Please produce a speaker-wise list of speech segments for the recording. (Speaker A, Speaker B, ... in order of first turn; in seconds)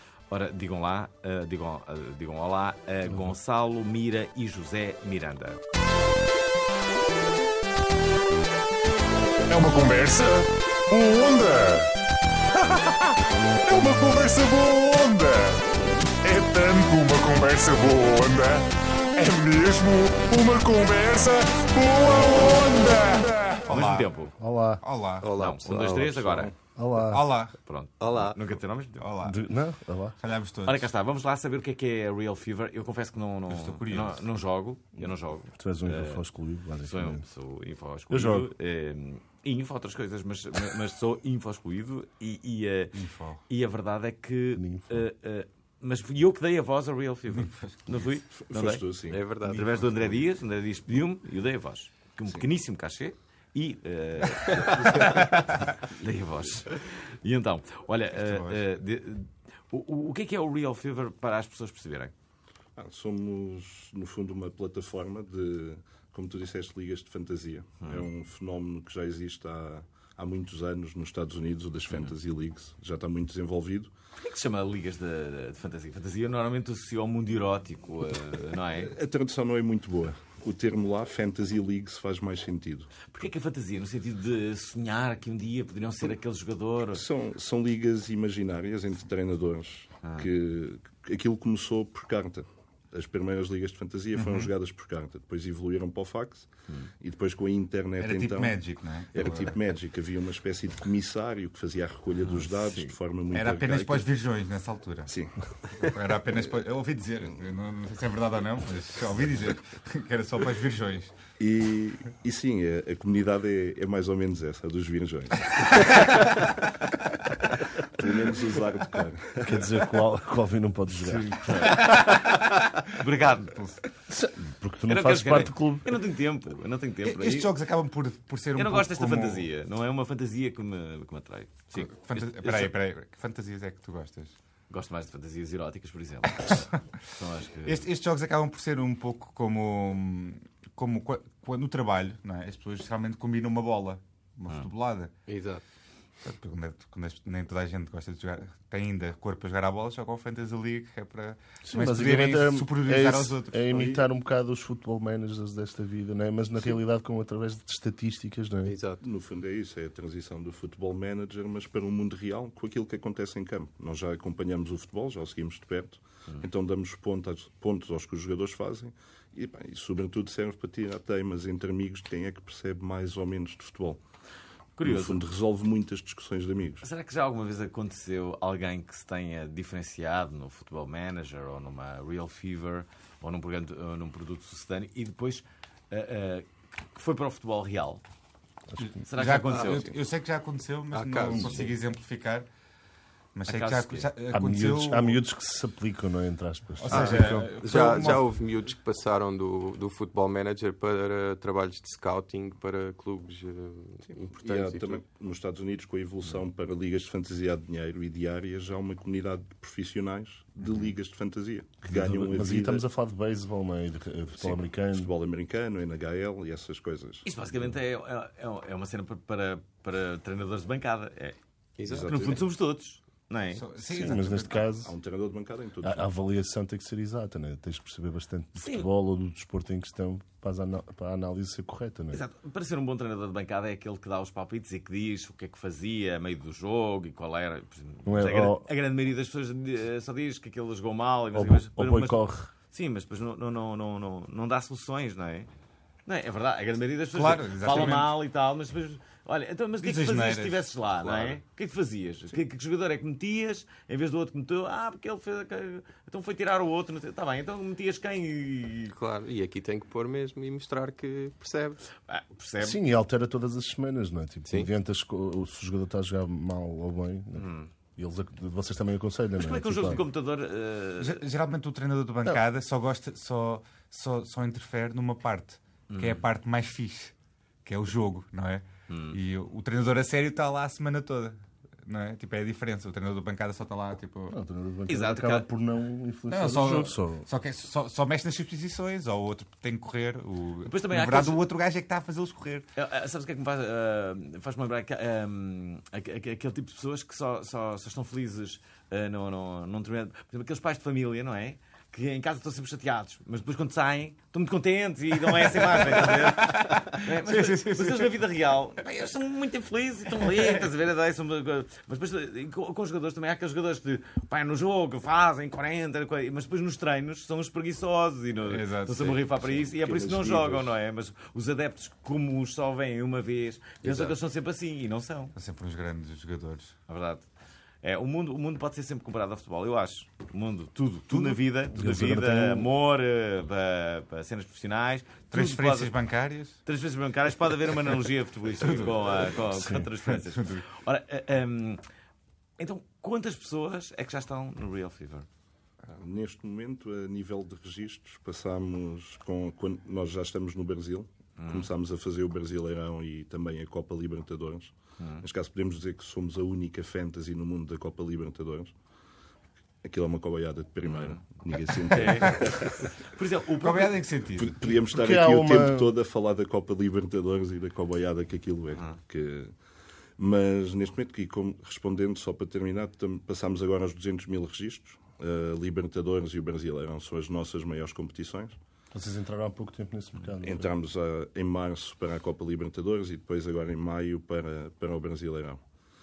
Speaker A: 0.3-5.6, 23.7-24.4, 25.3-26.5, 27.6-29.1, 30.6-36.2, 36.8-48.8, 49.4-62.1, 74.2-78.9, 83.1-87.0, 121.3-123.6, 124.9-127.5, 128.5-132.7, 134.7-137.8, 174.8-175.2, 176.8-188.0, 189.1-189.9, 193.5-194.1, 217.2-221.4, 222.1-223.6, 228.6-228.9, 232.1-245.5, 246.1-258.9, 262.1-262.9, 267.4-267.7, 269.4-271.2, 275.9-276.2, 278.9-279.2, 284.9-285.5, 290.6-291.4, 292.8-325.3, 326.9-327.3, 327.8-335.9, 336.6-341.8, 342.6-345.2, 351.4-351.7, 360.8-361.2, 361.9-364.1
Speaker B: 9.5-11.9, 12.6-23.7
Speaker C: 23.7-24.1, 24.8-25.3, 27.0-27.6, 29.0-29.4, 30.2-30.9, 33.5-34.2, 42.9-43.4, 47.3-48.1, 58.1-58.7, 94.2-94.5, 98.0-99.5, 103.3-105.1, 105.8-111.1, 121.3-122.2, 123.5-123.8, 127.0-129.5, 131.7-134.3, 136.4-136.7, 137.6-145.1, 146.2-153.8, 189.1-192.5, 193.3-195.2, 196.8-198.3, 223.5-224.6, 247.1-248.1, 249.8-250.7, 271.0-277.1, 277.6-284.4, 286.3-292.6, 305.3-308.1, 310.1-310.6, 318.4-319.2, 325.3-326.8, 335.3-336.6, 338.6-339.2, 340.3-340.6, 363.6-364.6
Speaker D: 24.4-24.8, 26.7-27.3, 29.2-30.2, 35.5-37.2, 38.1-38.5, 44.5-45.1, 119.4-121.4, 124.1-126.0, 151.6-158.7, 191.3-191.6, 194.3-198.2, 211.9-215.1, 223.9-224.9, 225.8-232.2, 238.0-238.7, 241.3-242.5, 262.6-270.0, 284.3-287.2, 331.7-332.7, 339.5-339.9, 364.8-365.9, 378.9-380.7
Speaker E: 25.2-26.5, 28.0-28.4, 49.1-50.2, 54.4-55.1, 145.3-145.6, 158.6-159.0, 189.5-189.9, 190.9-191.7, 196.9-205.0, 221.8-222.4, 251.0-251.4, 258.9-261.8
Speaker F: 48.4-49.2, 62.8-73.9, 78.8-82.9, 86.9-96.5, 97.0-104.1, 105.1-105.4, 111.4-116.0, 117.8-119.6, 153.7-154.0, 159.0-174.0, 174.8-176.8, 204.3-212.8, 214.4-217.2, 221.9-222.4, 224.7-226.1, 319.4-320.7, 345.9-358.7, 359.8-362.8, 364.4-369.5, 370.2-378.6, 380.4-385.6